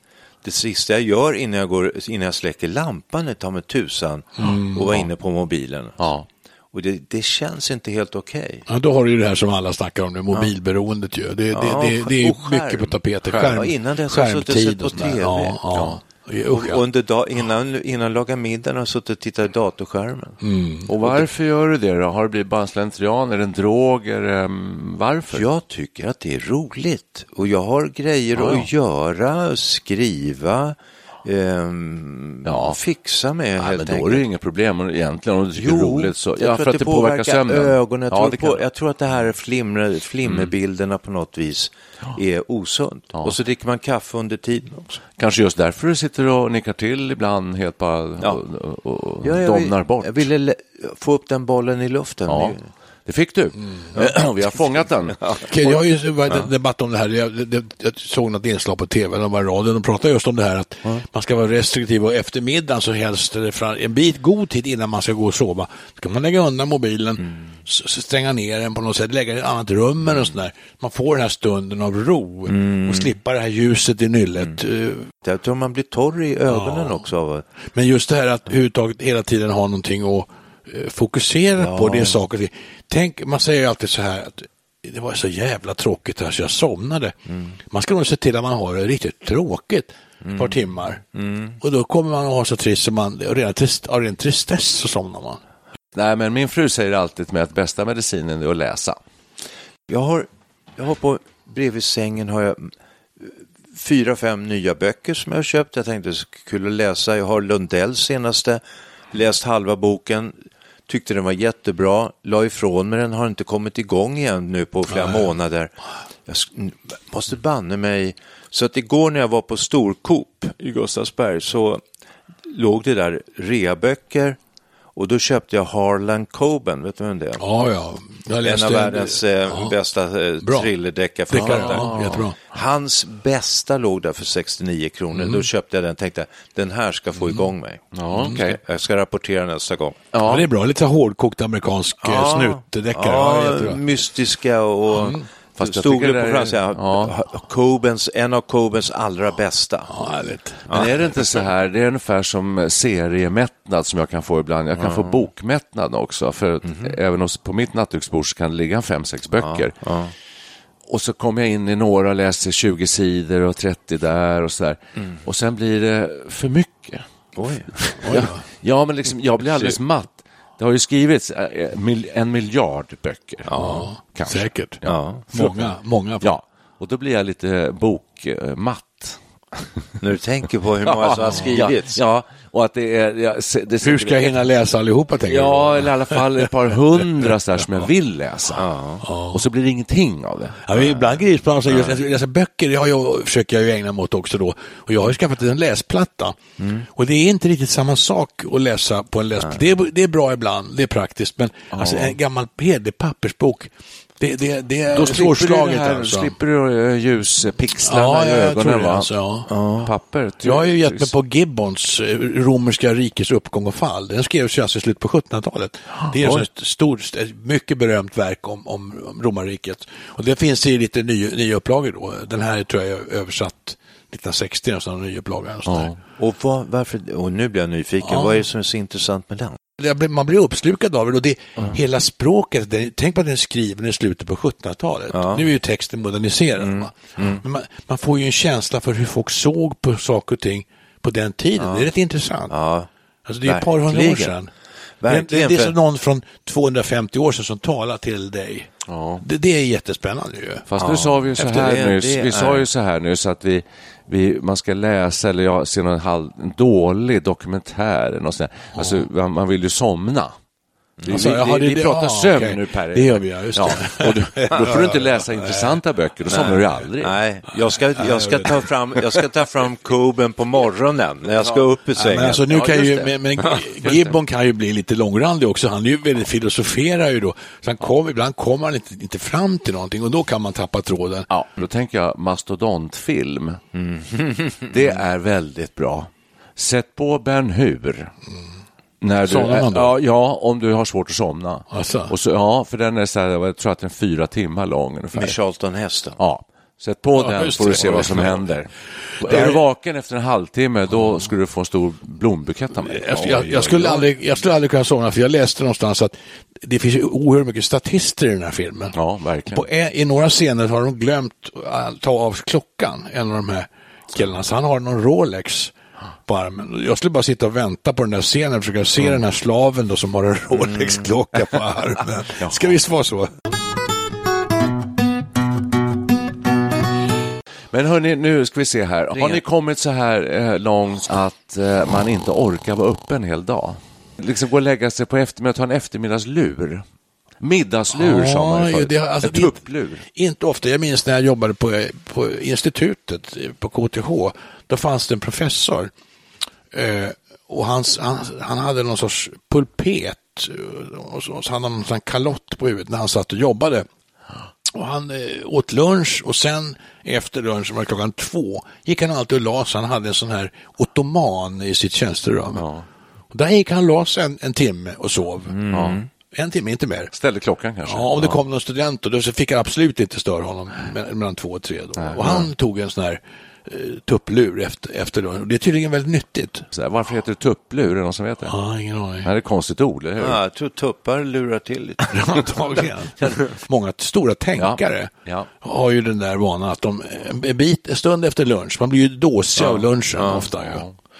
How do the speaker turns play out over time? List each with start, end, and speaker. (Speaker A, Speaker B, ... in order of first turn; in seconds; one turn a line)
Speaker A: 0.4-6.0
Speaker B: 4.4-5.0
Speaker C: 6.0-6.3
Speaker A: 6.7-8.7
Speaker B: 8.7-16.8
Speaker A: 11.5-15.6
Speaker C: 13.3-13.6
Speaker C: 15.7-16.0
Speaker A: 16.5-20.4
Speaker B: 20.4-20.9
Speaker C: 20.9-25.4
Speaker A: 21.0-21.3
Speaker A: 25.3-34.2
Speaker C: 28.4-28.7
Speaker C: 32.5-32.8
Speaker C: 33.6-38.6
Speaker A: 35.6-45.0
Speaker C: 40.2-40.5
Speaker C: 45.2-50.3
Speaker A: 49.2-52.7
Speaker C: 52.3-55.2
Speaker A: 55.2-55.5
Speaker B: 55.5-75.1
Speaker A: 72.5-73.1
Speaker A: 75.2-77.5
Speaker B: 76.5-77.0
Speaker B: 77.7-87.1
Speaker A: 81.6-82.2
Speaker A: 87.3-87.6
Speaker B: 87.7-91.0
Speaker A: 90.2-90.6
Speaker A: 91.1-91.6
Speaker B: 91.6-95.4
Speaker C: 95.9-99.0
Speaker A: 99.9-110.3
Speaker A: 110.9-115.7
Speaker B: 114.9-115.2
Speaker A: 116.3-121.8
Speaker A: 122.5-124.4
Speaker A: 125.0-127.4
Speaker B: 127.4-129.7
Speaker A: 128.4-131.9
Speaker B: 130.4-130.7
Speaker B: 131.3-132.4
Speaker C: 131.3-132.3
Speaker A: 132.5-137.8
Speaker B: 135.2-135.4
Speaker C: 137.9-138.6
Speaker B: 138.2-138.5
Speaker A: 138.4-140.0
Speaker C: 140.1-140.5
Speaker B: 140.3-143.8
Speaker A: 142.0-149.9
Speaker B: 145.0-145.2
Speaker C: 145.6-147.2
Speaker B: 149.9-150.7
Speaker A: 150.7-151.2
Speaker C: 150.7-159.8
Speaker A: 154.8-155.2
Speaker A: 156.6-156.9
Speaker A: 159.4-160.1
Speaker C: 160.9-167.1
Speaker A: 167.4-167.9
Speaker C: 167.7-173.5
Speaker B: 168.0-168.4
Speaker A: 173.5-173.9
Speaker B: 173.6-176.3
Speaker C: 174.0-179.7
Speaker A: 174.9-175.2
Speaker A: 180.0-182.0
Speaker C: 180.8-184.5
Speaker B: 183.8-186.5
Speaker C: 185.2-188.7
Speaker A: 188.6-189.0
Speaker B: 189.0-189.4
Speaker C: 189.3-190.8
Speaker B: 190.7-196.4
Speaker A: 196.6-196.9
Speaker B: 196.9-206.4
Speaker C: 201.7-202.2
Speaker C: 204.9-209.1
Speaker B: 207.8-209.5
Speaker A: 209.5-209.9
Speaker C: 209.8-211.1
Speaker B: 210.4-225.9
Speaker C: 216.1-216.4
Speaker C: 225.7-226.0
Speaker A: 226.2-229.6
Speaker B: 228.1-228.4
Speaker B: 229.8-242.5
Speaker A: 235.1-235.5
Speaker A: 236.6-237.4
Speaker A: 241.6-241.9
Speaker A: 242.5-242.9
Speaker B: 243.3-244.5
Speaker A: 243.4-244.3
Speaker A: 245.0-245.8
Speaker B: 245.1-248.7
Speaker C: 248.9-249.2
Speaker B: 249.2-250.7
Speaker C: 250.7-260.4
Speaker A: 250.8-252.7
Speaker B: 258.8-259.1
Speaker A: 261.0-261.2
Speaker C: 261.0-267.1
Speaker B: 261.1-265.8
Speaker A: 266.3-272.6
Speaker B: 268.0-268.6
Speaker B: 272.0-281.3
Speaker C: 272.5-274.2
Speaker C: 281.3-283.6
Speaker A: 283.7-284.9
Speaker C: 284.7-288.1
Speaker C: 289.0-295.4
Speaker B: 289.2-289.9
Speaker B: 291.7-292.1
Speaker A: 295.1-296.2
Speaker C: 296.2-304.1
Speaker B: 297.2-298.5
Speaker B: 299.2-299.6
Speaker B: 302.8-308.9
Speaker C: 308.9-309.6
Speaker B: 309.5-315.7
Speaker B: 316.3-323.3
Speaker A: 320.6-321.0
Speaker C: 322.4-322.8
Speaker C: 327.7-336.8
Speaker A: 329.1-329.4
Speaker C: 337.4-340.1
Speaker B: 337.9-345.9
Speaker B: 346.7-353.9
Speaker B: 354.7-362.6
Speaker C: 362.5-362.9
Speaker B: 363.3-365.6
Speaker A: 365.5-366.1
Speaker C: 365.7-366.0
Speaker B: 366.3-367.1
Speaker C: 367.1-368.4
Speaker B: 367.9-376.7
Speaker C: 372.0-372.4
Speaker C: 376.7-378.6
Speaker B: 378.5-379.3
Speaker C: 379.2-380.4
Speaker A: 380.2-382.5
Speaker B: 382.1-385.1
Speaker C: 384.6-385.5
Speaker B: 385.6-390.8
Speaker A: 389.6-390.5
Speaker C: 390.6-390.9